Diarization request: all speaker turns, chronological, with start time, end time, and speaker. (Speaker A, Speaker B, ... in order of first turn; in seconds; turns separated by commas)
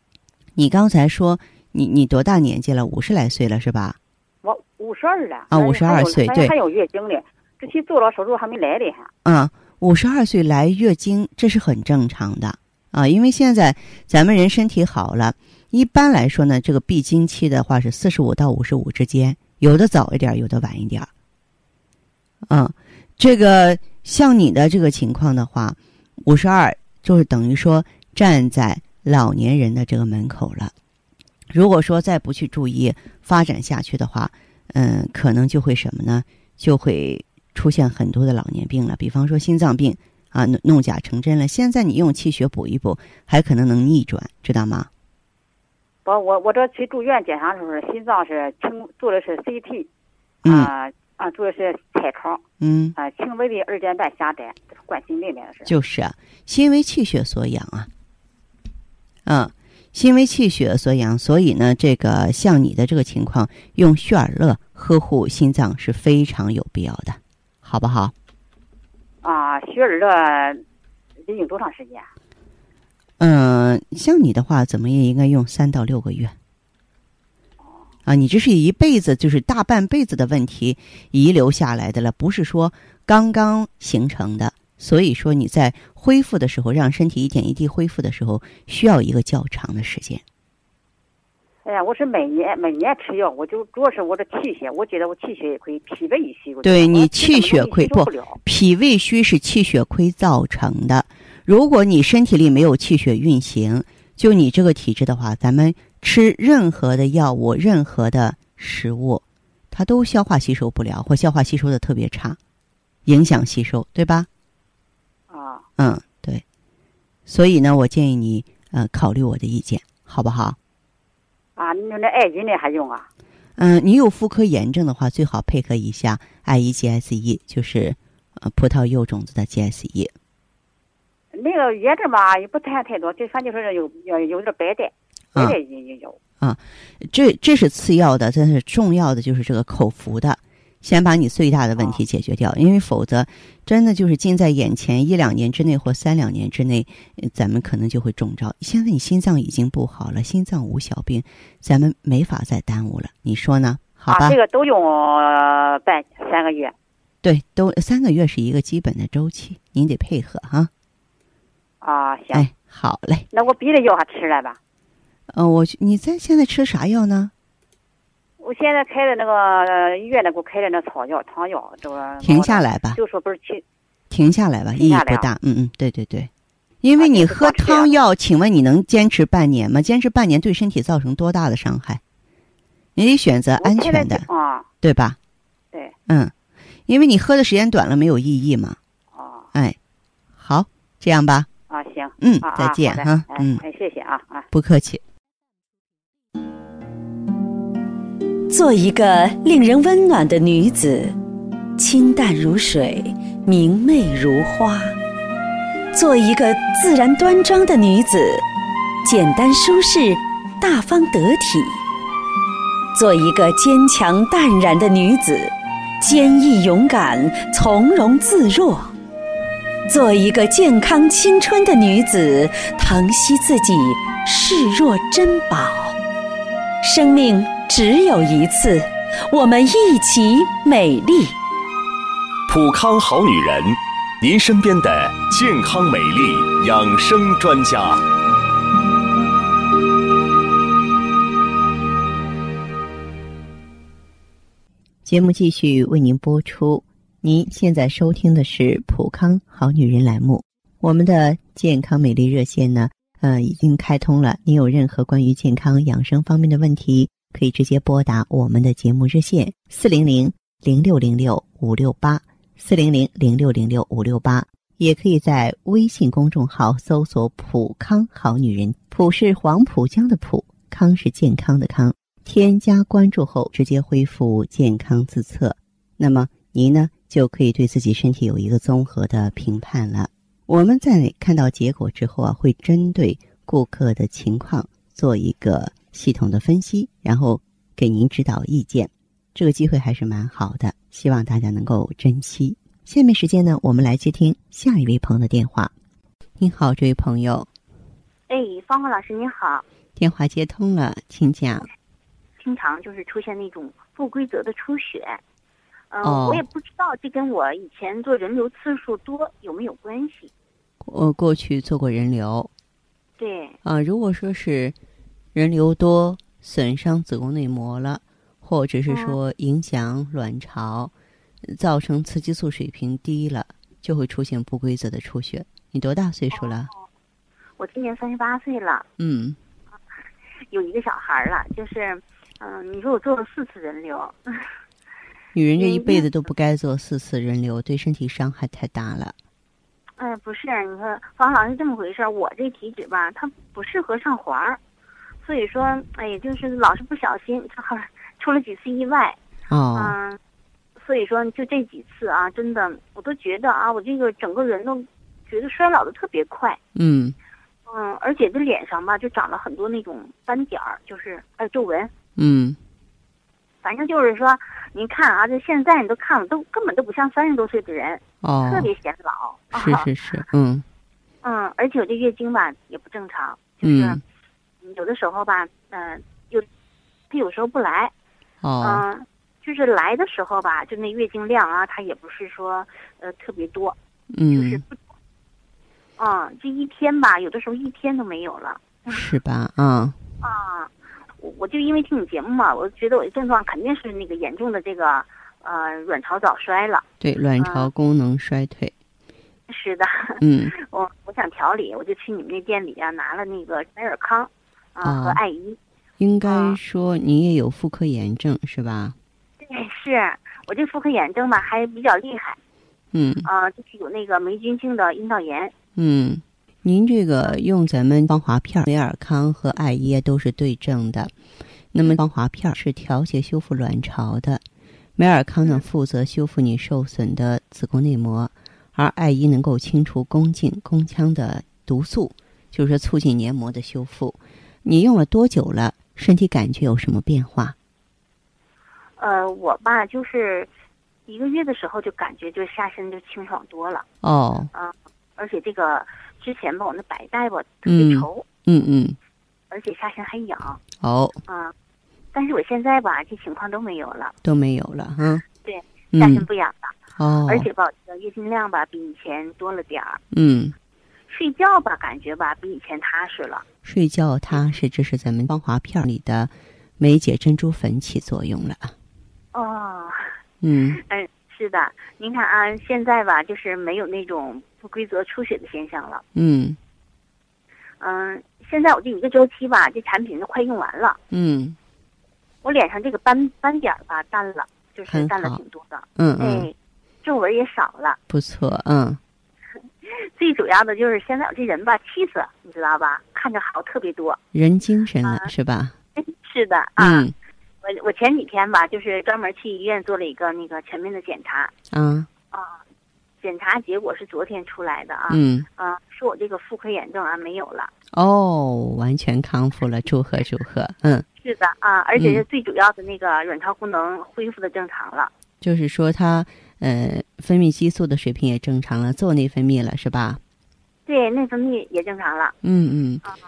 Speaker A: 0.6-4.0, Speaker B: 4.4-9.1, Speaker A: 5.5-6.5, Speaker A: 9.2-21.1, Speaker A: 22.5-30.7, Speaker A: 31.5-44.9, Speaker B: 46.0-49.9, Speaker B: 50.4-52.4, Speaker A: 50.5-50.7, Speaker A: 52.6-53.0, Speaker B: 53.0-55.7, Speaker A: 55.6-57.9, Speaker A: 59.2-68.1, Speaker B: 69.2-70.6, Speaker B: 71.2-72.1, Speaker A: 73.2-76.3, Speaker B: 77.6-77.9, Speaker A: 78.0-90.2, Speaker B: 91.6-98.4, Speaker A: 96.6-112.4, Speaker A: 113.0-114.3, Speaker B: 115.3-115.7, Speaker A: 115.8-116.4, Speaker A: 117.3-120.5, Speaker B: 121.6-123.1, Speaker A: 123.6-130.1, Speaker B: 131.3-136.2, Speaker A: 136.4-154.4, Speaker B: 141.8-142.0, Speaker B: 154.1-156.8, Speaker A: 157.2-160.7, Speaker B: 161.8-162.5, Speaker A: 162.3-163.2, Speaker B: 163.3-164.6, Speaker A: 165.3-167.3, Speaker B: 168.4-173.6, Speaker A: 172.2-173.0, Speaker A: 174.1-176.3, Speaker B: 174.8-175.3, Speaker A: 176.8-182.0, Speaker B: 177.0-178.0, Speaker A: 183.0-184.2, Speaker B: 183.6-184.7, Speaker A: 184.8-185.2, Speaker A: 186.1-186.3, Speaker A: 186.9-188.8, Speaker B: 189.1-189.5, Speaker A: 190.4-191.5, Speaker B: 191.7-194.5, Speaker A: 192.2-193.6, Speaker A: 194.5-195.0, Speaker C: 198.5-201.2, Speaker C: 201.8-204.9, Speaker C: 205.9-208.4, Speaker C: 209.0-211.8, Speaker C: 212.9-218.9, Speaker C: 219.9-226.0, Speaker C: 226.8-231.4, Speaker D: 232.5-238.0, Speaker E: 245.0-275.6, Speaker A: 276.0-277.1, Speaker E: 276.3-280.1, Speaker A: 280.5-284.4, Speaker E: 281.5-282.6, Speaker E: 283.2-287.0, Speaker A: 285.1-285.5, Speaker A: 286.0-288.9, Speaker E: 288.1-295.7, Speaker A: 290.9-291.5, Speaker E: 296.4-297.5, Speaker F: 298.3-299.6, Speaker E: 300.0-301.7, Speaker F: 302.4-305.2, Speaker F: 305.9-310.3, Speaker E: 306.0-306.4, Speaker E: 310.8-312.5, Speaker F: 313.2-313.6, Speaker E: 313.6-314.8, Speaker E: 315.3-320.9, Speaker F: 318.9-319.2, Speaker E: 321.4-326.7, Speaker F: 327.6-328.9, Speaker E: 329.0-329.4, Speaker F: 330.5-334.4, Speaker E: 335.3-339.1, Speaker F: 335.6-336.1, Speaker F: 340.0-344.6, Speaker F: 345.2-349.2, Speaker E: 349.5-349.9, Speaker F: 349.8-350.2, Speaker F: 350.8-356.6, Speaker E: 356.8-357.1, Speaker F: 357.7-361.9, Speaker E: 362.2-362.6, Speaker F: 363.6-369.9, Speaker E: 368.2-368.7, Speaker E: 369.5-370.6, Speaker F: 371.2-374.0, Speaker E: 373.6-374.0, Speaker F: 374.6-376.5, Speaker F: 377.1-377.9, Speaker E: 378.4-378.8, Speaker F: 378.6-383.8, Speaker E: 384.1-384.6, Speaker F: 384.3-384.8, Speaker F: 386.0-389.0, Speaker E: 388.9-390.0, Speaker F: 390.2-396.9, Speaker E: 397.0-398.7, Speaker F: 397.4-397.7, Speaker F: 399.5-405.6, Speaker E: 400.2-400.5, Speaker E: 404.8-405.2, Speaker E: 406.0-408.9, Speaker F: 406.2-406.6, Speaker F: 409.4-412.4, Speaker E: 412.9-413.3, Speaker F: 413.2-415.5, Speaker E: 415.8-421.1, Speaker E: 421.7-424.4, Speaker E: 425.0-437.6, Speaker F: 439.0-440.5, Speaker F: 441.1-443.9, Speaker E: 444.0-444.5, Speaker F: 444.5-448.2, Speaker E: 447.6-449.0, Speaker F: 449.5-450.6, Speaker E: 450.8-451.2, Speaker F: 451.3-451.5, Speaker F: 452.1-454.1, Speaker E: 454.2-455.2, Speaker F: 455.4-456.7, Speaker E: 455.9-456.2, Speaker E: 457.0-457.5, Speaker F: 457.3-460.0, Speaker E: 460.1-460.6, Speaker F: 461.1-463.4, Speaker E: 463.6-468.7, Speaker F: 469.3-470.1, Speaker E: 470.4-470.8, Speaker F: 470.7-476.0, Speaker E: 476.1-476.6, Speaker F: 477.8-481.0, Speaker E: 481.1-481.6, Speaker F: 482.4-488.0, Speaker E: 484.9-485.4, Speaker E: 486.0-486.5, Speaker E: 488.1-489.0, Speaker F: 489.9-494.2, Speaker E: 494.3-495.7, Speaker F: 496.0-497.1, Speaker E: 496.8-497.1, Speaker F: 497.6-501.5, Speaker E: 501.7-502.1, Speaker F: 503.2-507.7, Speaker E: 505.1-505.4, Speaker E: 507.9-511.1, Speaker F: 511.2-515.1, Speaker E: 512.0-512.2, Speaker E: 515.4-520.2, Speaker F: 520.9-522.4, Speaker E: 522.4-523.0